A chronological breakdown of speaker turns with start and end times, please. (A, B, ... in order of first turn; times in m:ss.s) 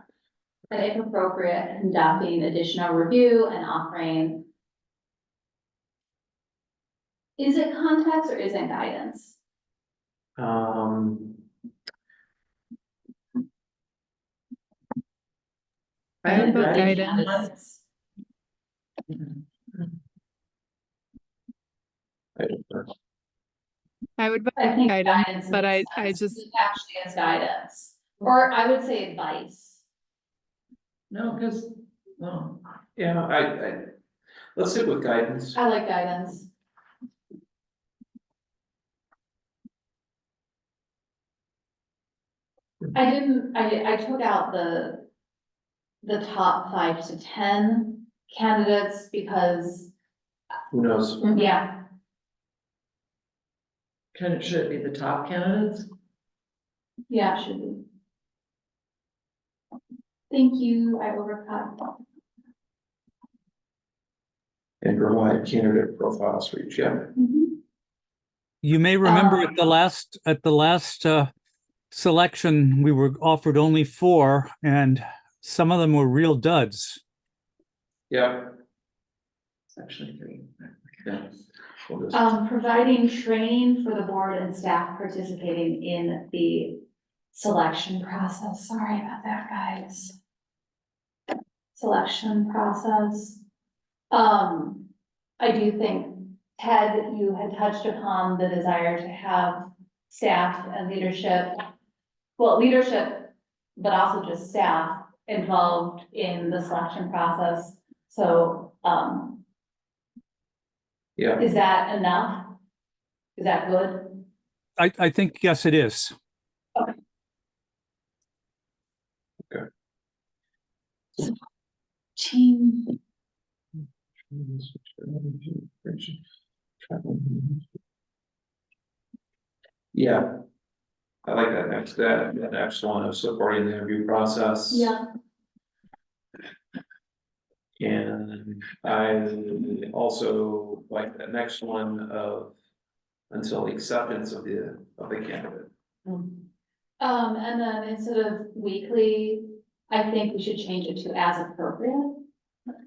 0:00.7-0:04.5 A
0:07.4-0:09.4 A
0:10.4-0:11.4 B
0:16.2-0:17.5 C
0:16.3-0:17.8 A
0:16.3-0:17.2 D
0:22.4-0:22.9 B
0:24.2-0:26.4 D
0:24.6-0:29.8 A
0:31.1-0:32.6 C
0:33.0-0:33.9 B
0:34.6-0:35.6 B
0:35.6-0:36.5 A
0:42.9-0:45.1 A
0:46.0-0:49.9 A
0:50.7-0:51.3 B
0:51.2-0:51.8 A
0:54.1-0:55.9 C
0:57.1-0:57.8 A
1:00.3-1:01.9 A
1:04.8-1:07.1 B
1:07.2-1:07.6 A
1:08.6-1:11.3 E
1:09.0-1:09.6 A
1:11.9-1:17.0 E
1:18.1-1:18.6 B
1:19.7-1:21.2 C
1:21.9-1:22.3 B
1:22.1-1:26.8 A
1:27.3-1:30.2 A
1:31.7-1:33.4 A
1:34.1-1:34.9 A
1:35.4-1:41.6 A
1:42.4-1:49.4 A
1:51.2-1:51.4 B
1:51.4-1:52.6 A
1:53.4-1:54.2 A
1:54.8-1:56.1 E
2:02.2-2:03.0 A
2:04.3-2:06.2 B
2:06.8-2:07.6 B
2:09.9-2:10.3 B
2:11.2-2:14.9 B
2:14.7-2:15.0 A
2:17.8-2:22.6 B
2:23.3-2:25.7 B
2:27.0-2:32.2 A